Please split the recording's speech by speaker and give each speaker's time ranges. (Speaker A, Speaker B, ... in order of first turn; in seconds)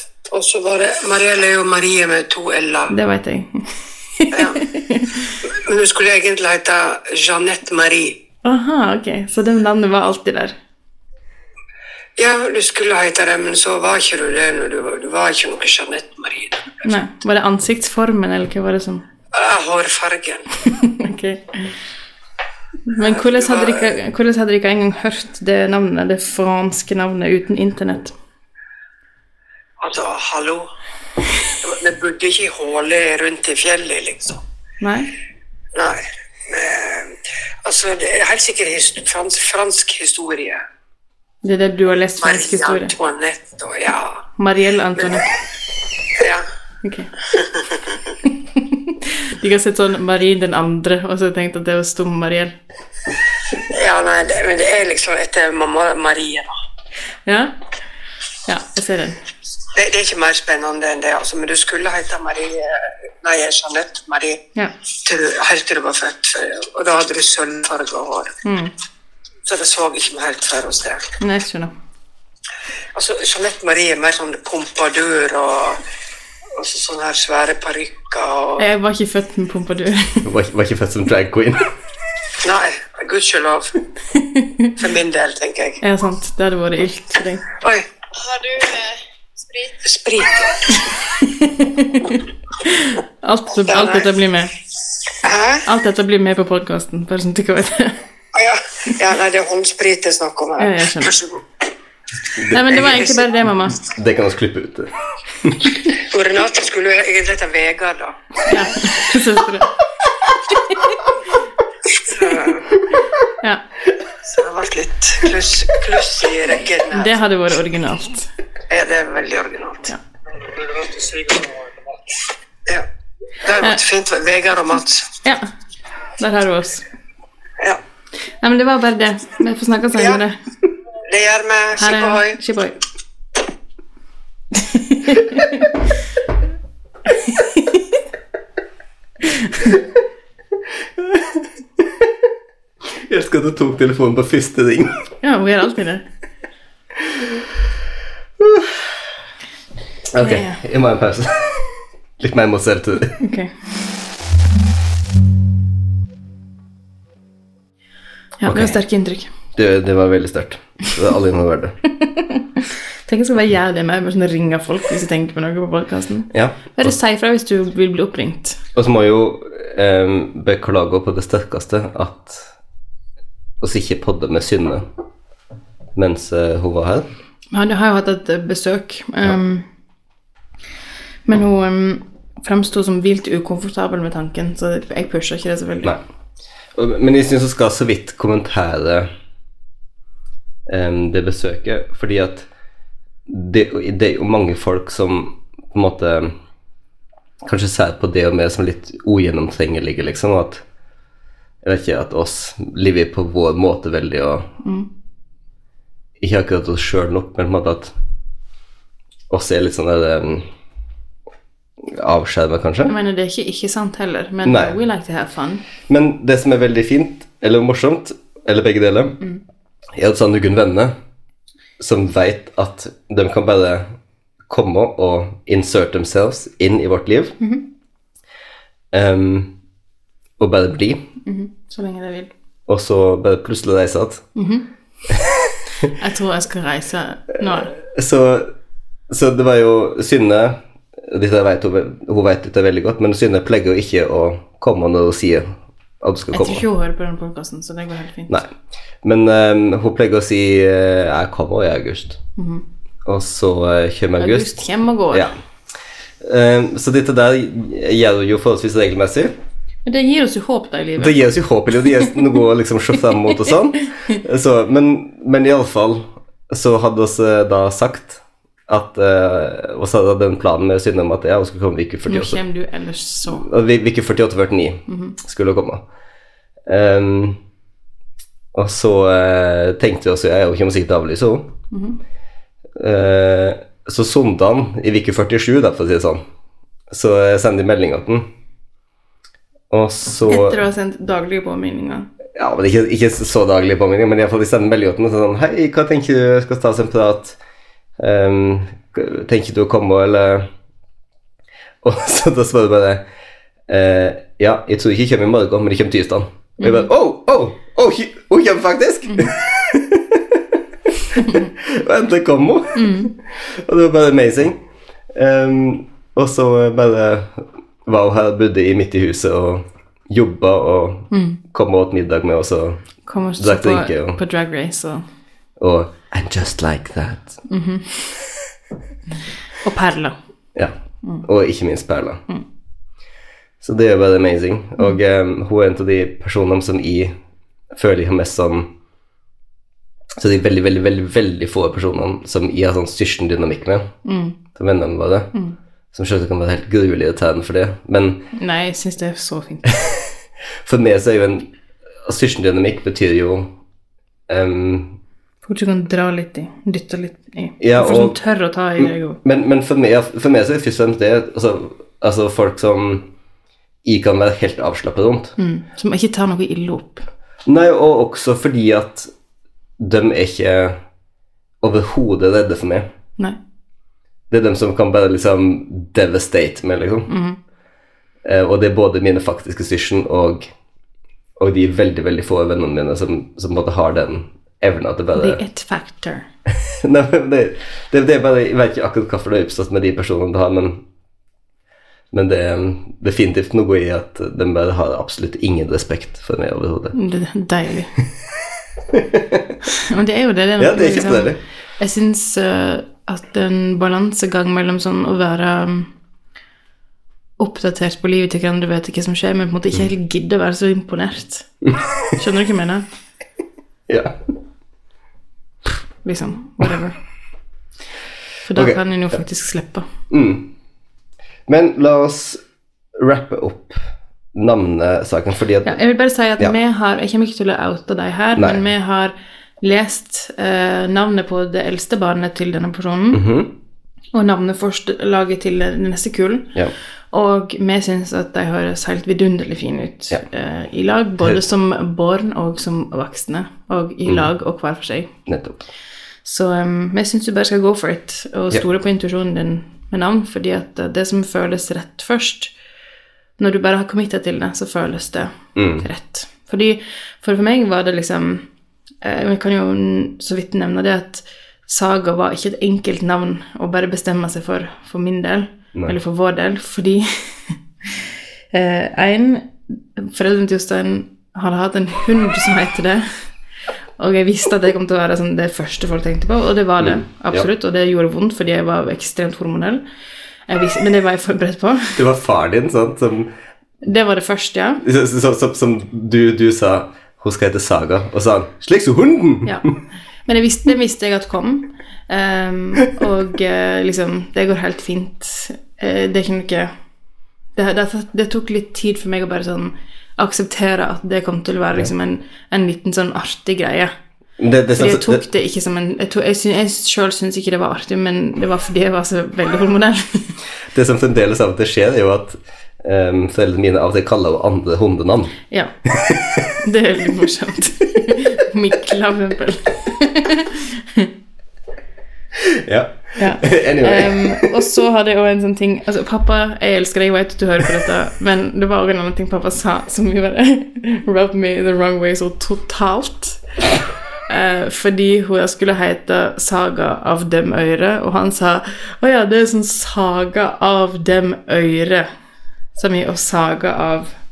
Speaker A: 0.3-2.9, 4.3-4.7, 5.4-8.2, 12.2-16.8, 19.3-20.6, 23.2-23.8, 29.8-30.7, 31.6-34.4, 35.7-40.6, 42.2-44.2, 46.1-46.5, 47.3-47.8, 53.7-56.5, 59.7-64.4, 65.0-68.3, 69.4-71.1, 72.9-75.8, 76.5-78.6, 82.4-83.8, 84.7-85.8, 87.5-89.0, 89.7-90.8, 93.7-94.1, 95.2-95.6, 98.3-101.4, 102.8-103.2, 105.9-109.0, 111.9-112.8, 114.2-117.2, 118.7-121.7, 123.4-125.1, 131.0-132.4
Speaker B: 2.9-5.4, 8.4-10.6, 16.8-19.0, 20.6-21.8, 22.8-28.1, 34.8-35.1, 41.4-42.9, 44.4-45.3, 46.8-47.1, 48.2-52.5, 57.2-57.5, 58.5-59.2, 68.4-68.7, 71.2-71.7, 78.6-80.3, 84.1-84.7, 85.8-87.5, 90.7-94.5, 95.7-98.0, 100.6-101.1, 102.5-103.9, 108.5-109.7, 116.9-118.3, 125.2-125.5, 126.2-126.8, 128.3-130.4, 131.8-132.7, 134.5-135.8, 137.1-138.0, 139.2-139.8, 145.2-146.1, 150.2-150.6, 153.2-153.5, 158.4-159.3, 161.8-168.6, 177.5-179.7, 181.2-186.0, 204.6-204.9, 212.9-215.6, 231.2-232.3, 234.3-234.7, 235.9-237.7, 246.3-248.4, 252.4-252.6, 254.2-255.3, 259.8-261.2, 272.1-273.5, 274.9-275.1, 281.7-282.0, 290.3-292.1, 306.6-306.9, 311.2-311.5, 312.7-313.1, 321.1-321.4, 323.1-325.1, 327.5-328.1, 329.6-330.2, 344.0-344.4, 348.3-349.8, 355.4-359.2, 365.4-367.1, 377.1-377.4, 385.1-386.2, 396.9-397.9, 399.7-405.9, 407.4-411.5, 412.1-412.8, 416.0-417.0, 418.4-419.9, 425.6-433.2, 434.1-436.5, 437.1-445.1, 446.2-452.5, 453.4-458.4, 459.0-473.3, 474.0-479.8, 480.5-482.0, 483.8-484.8, 490.2-496.7, 497.5-503.9, 504.7-510.4, 516.6-521.1, 523.2-533.5, 534.3-542.1, 542.7-544.1
Speaker C: 80.2-81.7, 102.3-102.8, 103.9-105.7, 141.0-142.1, 143.0-145.0, 147.0-147.4, 148.4-148.9, 150.1-153.2, 158.4-158.8, 159.5-161.8, 166.3-166.9, 168.7-172.5, 173.6-174.9, 175.9-177.1, 186.7-189.1, 190.7-192.5, 193.3-196.3, 197.4-200.6, 201.6-204.5, 206.2-207.9, 209.3-210.5, 211.9-212.9, 214.4-214.8, 215.9-219.2, 219.9-220.9, 221.8-223.9, 224.5-227.4, 228.9-229.5, 230.4-231.0, 232.7-234.3, 235.1-235.9, 237.7-238.5, 239.1-246.6, 249.0-252.2, 253.1-254.6, 256.2-259.3, 261.0-272.4, 273.3-275.8, 276.7-277.4, 278.5-281.5, 282.8-286.2, 286.9-288.3, 289.7-290.6, 292.4-297.4, 298.0-300.5, 301.8-303.0, 303.7-314.6, 315.1-322.8, 323.4-324.2, 325.6-327.4, 330.5-332.2, 333.6-337.1, 337.7-338.7, 340.2-343.9, 344.5-345.3, 345.9-348.2, 350.6-351.5, 352.0-353.5, 354.3-355.0, 357.6-358.2, 358.8-363.1, 363.8-365.4, 367.4-369.1, 369.8-370.8, 371.6-372.9, 374.3-377.1, 378.2-380.5, 381.4-385.4, 386.8-390.8, 392.1-397.0, 398.9-399.6, 400.6-401.4, 411.6-412.1, 413.9-414.2, 418.5-418.8, 420.1-420.5, 421.5-422.4, 422.9-425.8, 428.4-428.7, 433.1-433.5, 445.3-445.6, 455.5-455.9, 476.8-477.5, 481.9-483.3, 484.8-489.7, 504.4-505.2, 510.7-516.5, 522.4-524.5